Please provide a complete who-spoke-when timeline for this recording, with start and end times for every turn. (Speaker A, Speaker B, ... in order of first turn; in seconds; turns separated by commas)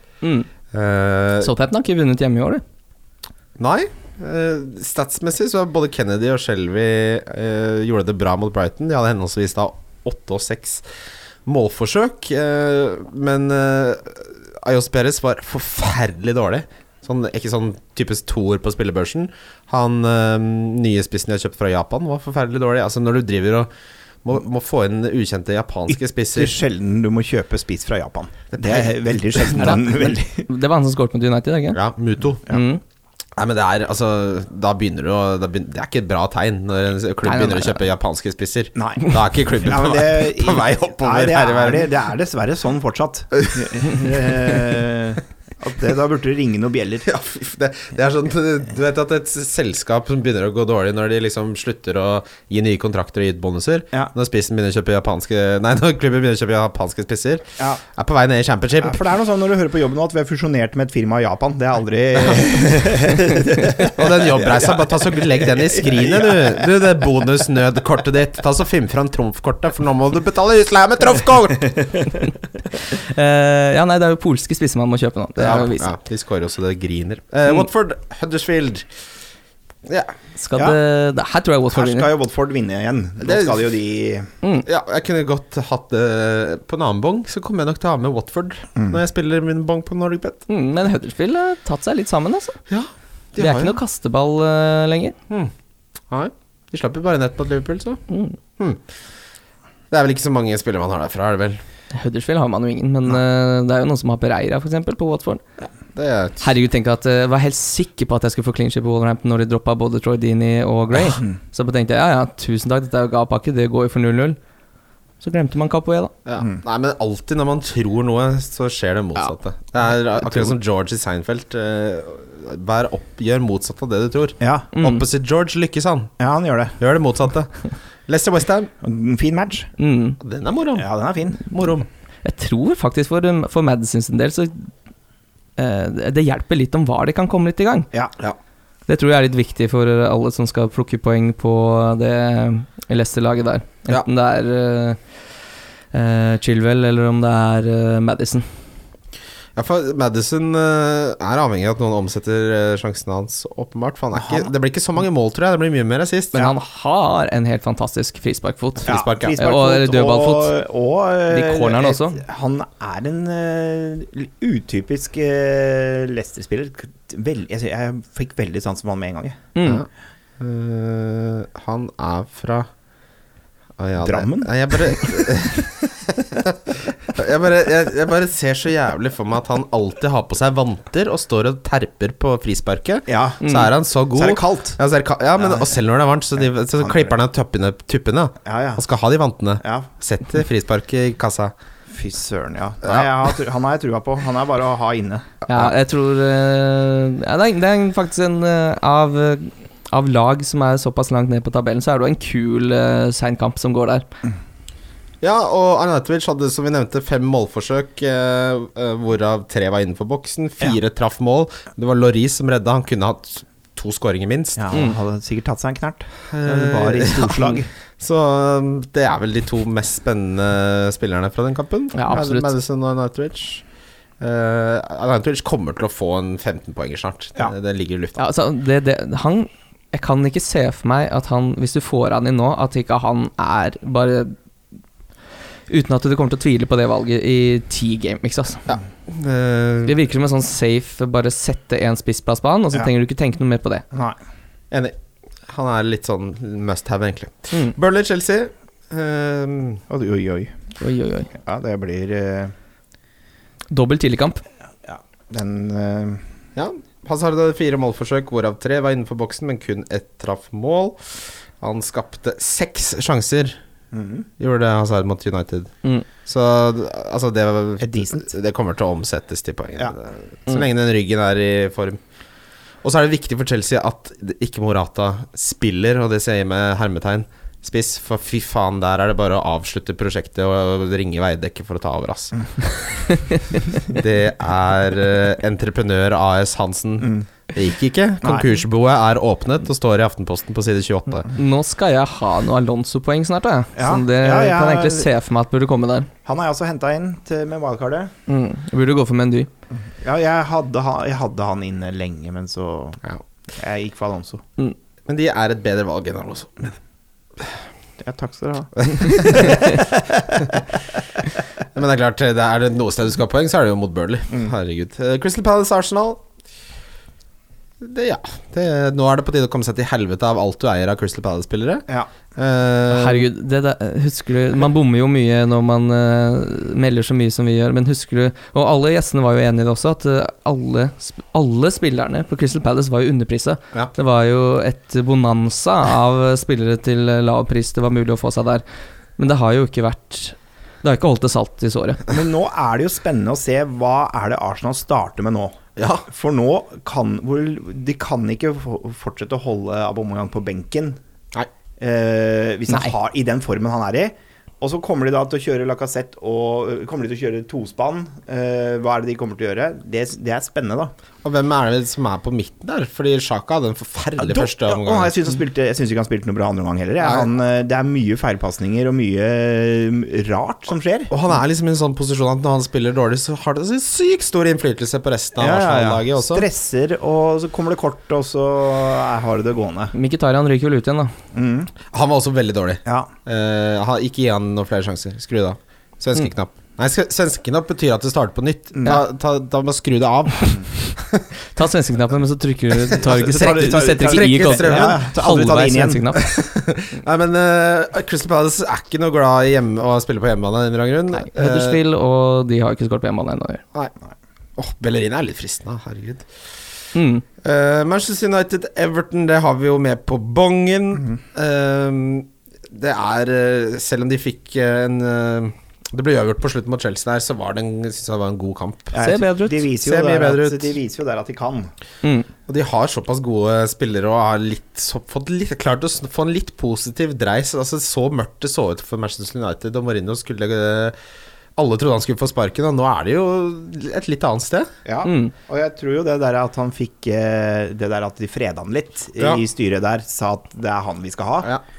Speaker A: 0.2-0.5, Speaker B: 0.7-1.5, Speaker A: 1.4-2.6, Speaker B: 3.6-10.8, Speaker B: 11.4-23.7, Speaker B: 24.2-26.6, Speaker C: 25.9-30.5, Speaker B: 28.5-29.8, Speaker A: 29.6-31.8, Speaker B: 31.7-32.5, Speaker A: 32.5-32.8, Speaker B: 33.4-41.9, Speaker A: 37.2-37.8, Speaker C: 38.8-47.1, Speaker B: 43.4-43.8, Speaker B: 47.0-57.4, Speaker B: 57.9-59.0, Speaker C: 58.8-66.7, Speaker B: 62.2-62.8, Speaker B: 63.8-72.0, Speaker A: 72.8-75.9, Speaker B: 75.4-78.9, Speaker B: 79.8-80.1, Speaker A: 80.4-82.1, Speaker C: 81.7-84.3, Speaker B: 83.2-83.6, Speaker B: 84.7-90.4, Speaker A: 90.5-92.6, Speaker B: 92.7-93.8, Speaker A: 93.4-95.2, Speaker B: 96.1-98.0, Speaker A: 98.1-98.3, Speaker B: 99.9-101.6, Speaker A: 101.9-105.4, Speaker B: 105.9-106.4, Speaker A: 106.4-114.4, Speaker A: 115.2-116.1, Speaker B: 116.2-126.1, Speaker C: 124.4-124.7, Speaker A: 124.8-125.0, Speaker C: 126.2-126.8, Speaker B: 126.8-128.7, Speaker C: 128.8-129.7, Speaker A: 129.8-130.2, Speaker B: 130.2-131.9, Speaker C: 130.7-131.4, Speaker A: 132.2-134.7, Speaker A: 135.6-137.9, Speaker A: 138.9-145.0, Speaker A: 145.9-148.5, Speaker B: 149.6-156.3, Speaker C: 154.2-154.5, Speaker A: 156.3-160.5, Speaker B: 158.8-159.4, Speaker C: 158.9-169.4, Speaker A: 161.3-162.2, Speaker A: 169.5-169.8, Speaker B: 170.4-172.7, Speaker B: 173.8-191.5, Speaker C: 174.0-175.7, Speaker C: 183.1-183.4, Speaker A: 183.4-183.7, Speaker C: 184.1-184.8, Speaker C: 185.4-185.7, Speaker C: 186.4-187.1, Speaker C: 188.4-188.8, Speaker C: 189.6-189.9, Speaker C: 191.9-195.3, Speaker A: 195.5-204.1, Speaker B: 205.2-214.7, Speaker C: 214.6-217.7, Speaker B: 216.3-223.6, Speaker A: 221.9-222.5, Speaker B: 224.2-228.2, Speaker A: 228.2-234.3, Speaker A: 235.7-238.6, Speaker B: 238.7-239.9, Speaker A: 239.8-243.8, Speaker C: 243.9-244.2, Speaker B: 245.5-249.8, Speaker C: 249.9-250.5, Speaker A: 250.8-251.3, Speaker C: 251.3-252.5, Speaker A: 253.7-254.4, Speaker C: 254.8-256.2, Speaker B: 256.6-263.6, Speaker C: 263.9-264.3, Speaker B: 264.4-272.0, Speaker C: 267.8-268.3, Speaker B: 272.8-283.1, Speaker B: 283.7-291.3, Speaker C: 287.0-287.3, Speaker C: 288.2-288.6, Speaker A: 291.3-296.1, Speaker C: 293.8-295.1, Speaker C: 296.2-298.1, Speaker A: 298.3-299.5, Speaker C: 299.9-303.0, Speaker C: 303.5-304.4, Speaker B: 305.1-306.8, Speaker C: 308.0-310.5, Speaker B: 308.8-309.7, Speaker B: 311.7-316.2, Speaker B: 317.8-323.2, Speaker A: 322.9-338.6, Speaker A: 339.2-342.0, Speaker C: 342.1-351.0, Speaker B: 345.8-346.0, Speaker C: 351.8-360.9, Speaker B: 361.2-365.2, Speaker C: 364.2-371.1, Speaker B: 371.1-376.5, Speaker C: 375.4-379.9, Speaker A: 379.9-381.1, Speaker C: 381.3-381.7, Speaker B: 381.9-391.2, Speaker C: 382.8-383.1, Speaker A: 391.5-396.2, Speaker B: 392.9-395.1, Speaker C: 393.1-396.1, Speaker B: 396.1-401.8, Speaker A: 401.2-403.6, Speaker B: 404.6-406.4, Speaker A: 406.9-407.2, Speaker B: 407.4-419.0, Speaker C: 418.9-421.7, Speaker A: 419.0-419.6, Speaker B: 419.8-420.7, Speaker B: 422.5-430.9, Speaker B: 431.6-434.7, Speaker C: 434.8-441.5, Speaker A: 435.0-435.3